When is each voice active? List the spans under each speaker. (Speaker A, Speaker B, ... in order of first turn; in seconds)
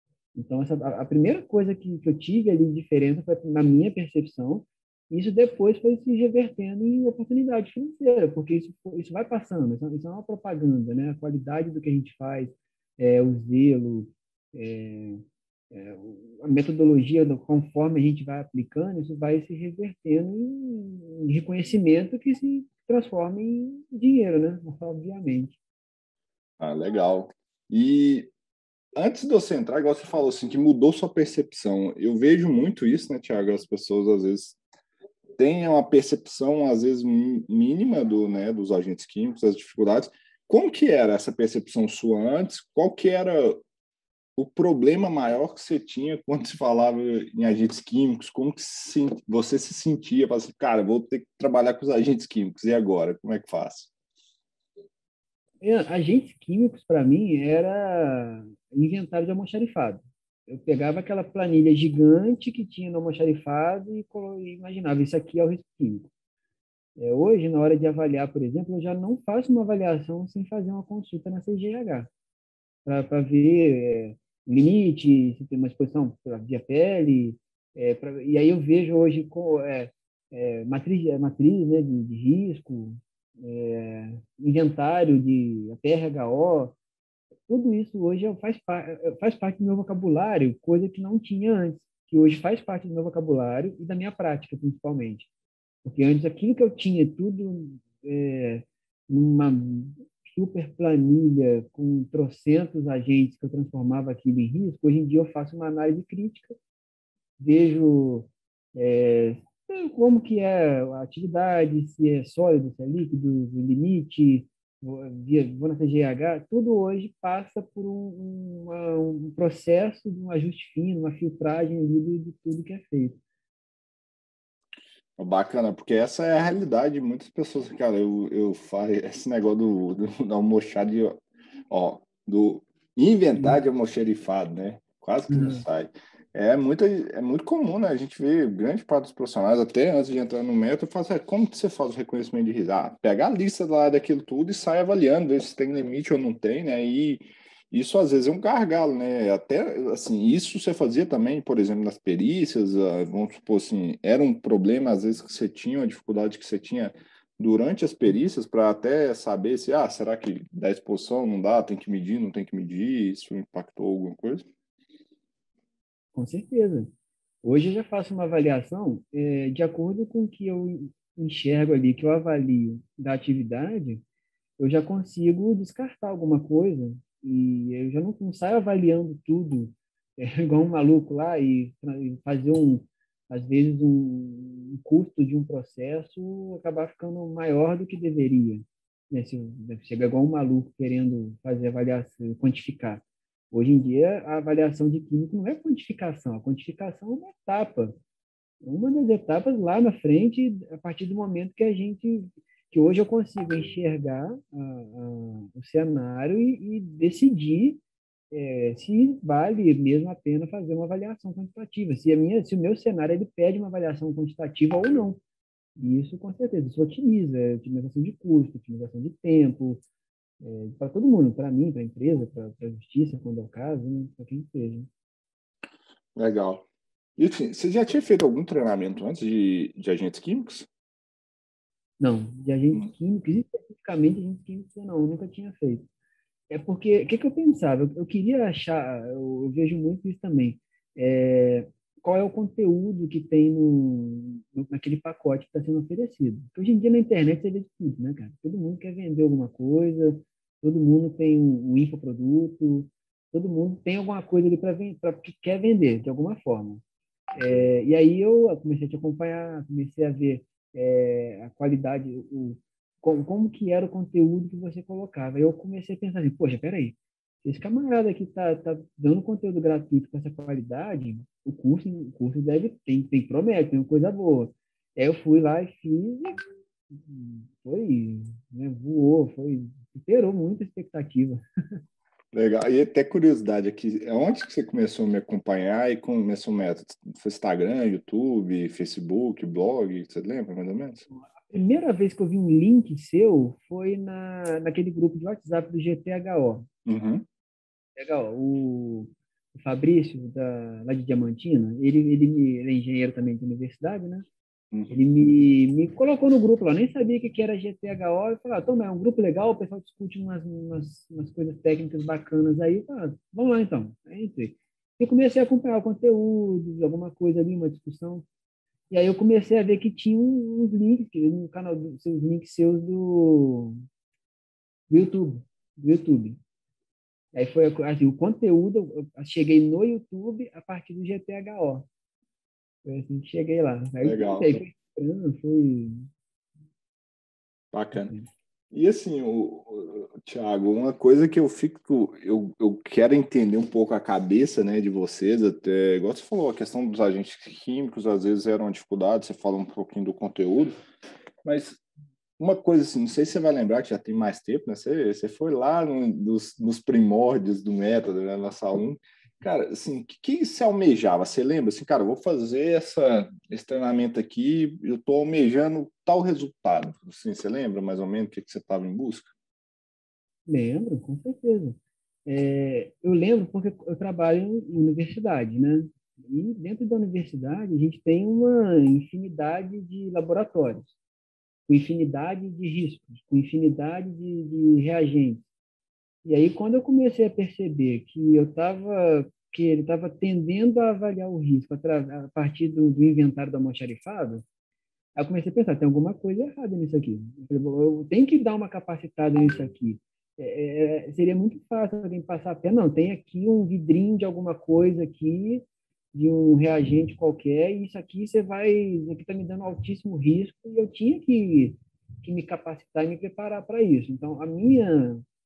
Speaker A: 0.3-25.6, 55.6-66.1, 67.0-72.1, 72.8-86.8, 87.5-95.3, 95.8-106.5, 107.4-123.2, 135.3-135.6, 166.1-166.9, 167.4-174.0, 174.6-198.0, 198.6-207.8, 208.3-215.2, 215.8-219.8, 220.4-224.9, 232.0-235.9, 236.5-256.8, 257.3-276.4, 276.9-281.4, 291.1-296.7, 297.9-304.3, 304.9-318.2, 318.9-323.8, 324.9-326.4, 327.3-331.9, 332.8-336.1, 337.9-338.3, 370.5-380.9, 381.7-385.4, 386.2-394.4, 395.1-415.2
Speaker B: 26.6-28.3, 28.9-34.6, 35.4-43.6, 44.4-53.9, 125.2-164.4, 226.2-226.6, 227.2-230.7, 282.3-291.0, 296.9-297.2, 304.7-305.0, 334.0-334.6, 337.7-338.1, 338.7-350.8, 351.4-351.8, 352.4-369.3